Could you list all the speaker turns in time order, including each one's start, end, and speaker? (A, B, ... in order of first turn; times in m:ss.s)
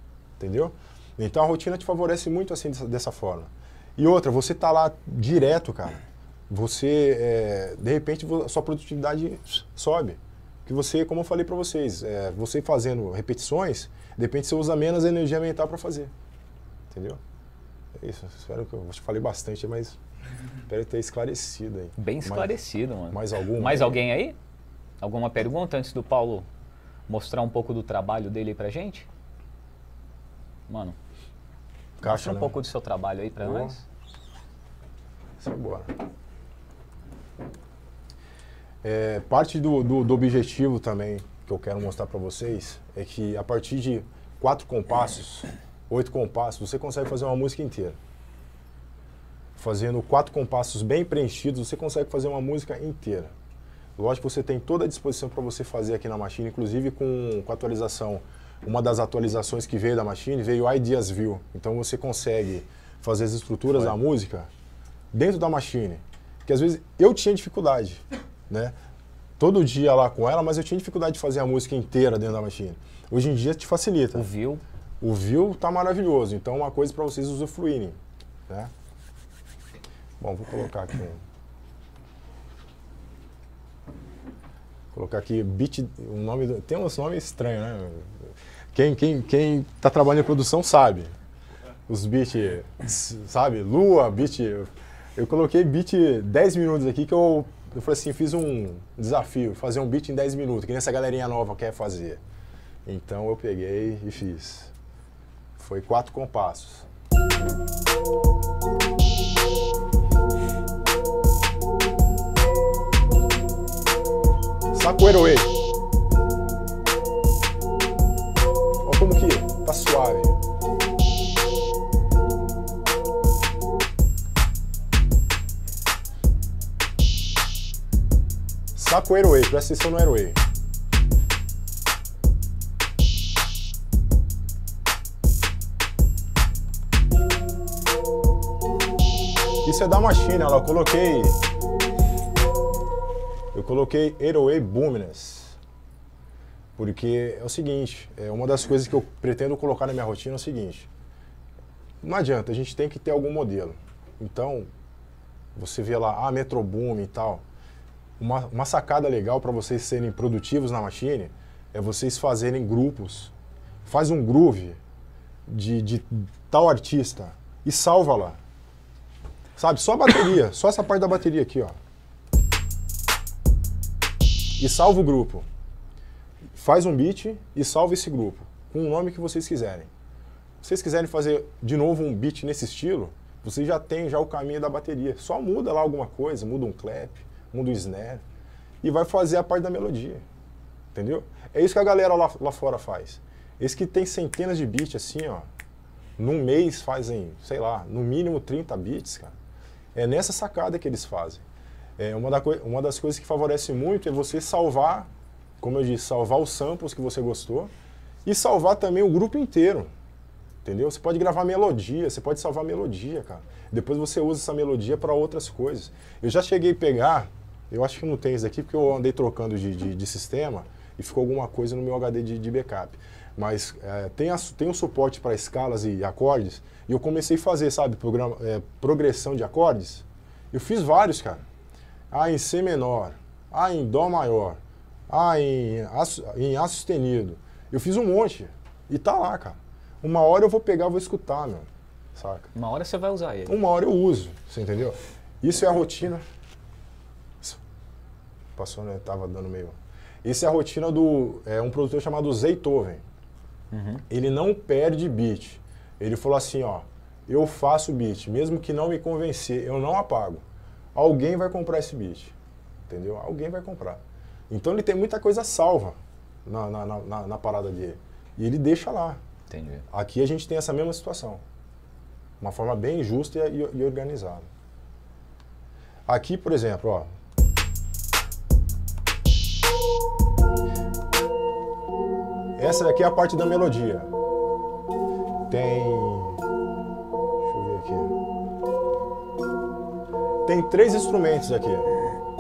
0:00.4-0:16.1 A
0:16.9-0:17.2 A
0:18.0-0:20.0 A
0:20.7-0:22.5 A
0:22.0-0:24.4 B
0:23.1-0:24.0 A
0:25.0-0:26.5 B
0:27.1-0:29.1 B
0:30.7-0:31.0 B
0:32.0-0:32.6 A
0:32.0-0:33.8 B
0:33.4-0:33.8 A
0:35.4-0:35.9 A
0:38.8-0:48.0 A
0:49.6-0:53.3 A
0:54.0-1:04.5 A
1:05.1-1:08.8 A
1:09.4-1:14.3 A
1:14.1-1:14.6 B
1:15.0-1:18.7 A
1:20.2-1:21.2 A
1:24.9-1:31.1 A
1:31.9-1:42.2 A
1:42.8-1:44.7 A
1:45.6-1:46.9 A
1:54.7-1:55.6 A
1:58.8-2:00.4 A
2:08.8-2:10.4 A
2:19.6-2:21.4 A
2:23.5-2:25.6 A
2:26.8-2:30.9 A
2:32.0-2:34.7 A
2:35.6-2:37.4 A
2:38.2-2:43.3 A
2:43.8-2:44.8 A
2:45.5-2:48.4 A
2:49.6-2:51.8 A
2:54.6-2:55.5 A
2:56.6-2:59.9 A
3:00.6-3:08.2 A
3:08.8-3:10.2 A
3:10.9-3:15.5 A
3:16.2-3:19.4 A
3:20.0-3:21.4 A
3:22.0-3:25.1 A
3:25.6-3:27.7 A
3:28.2-3:29.9 A
3:30.6-3:51.4 A
3:52.1-4:02.5 A
4:02.6-4:03.6 B
4:03.5-4:06.2 A
4:08.6-4:13.0 A
4:13.7-4:14.0 B
4:14.1-4:22.3 A
4:22.9-4:29.2 A
4:29.5-4:29.8 B
4:29.9-4:31.4 A
4:32.4-4:34.5 A
4:36.1-4:37.1 A
4:42.6-4:44.1 A
4:45.5-4:46.4 A
4:47.4-4:48.1 A
4:50.4-4:51.9 A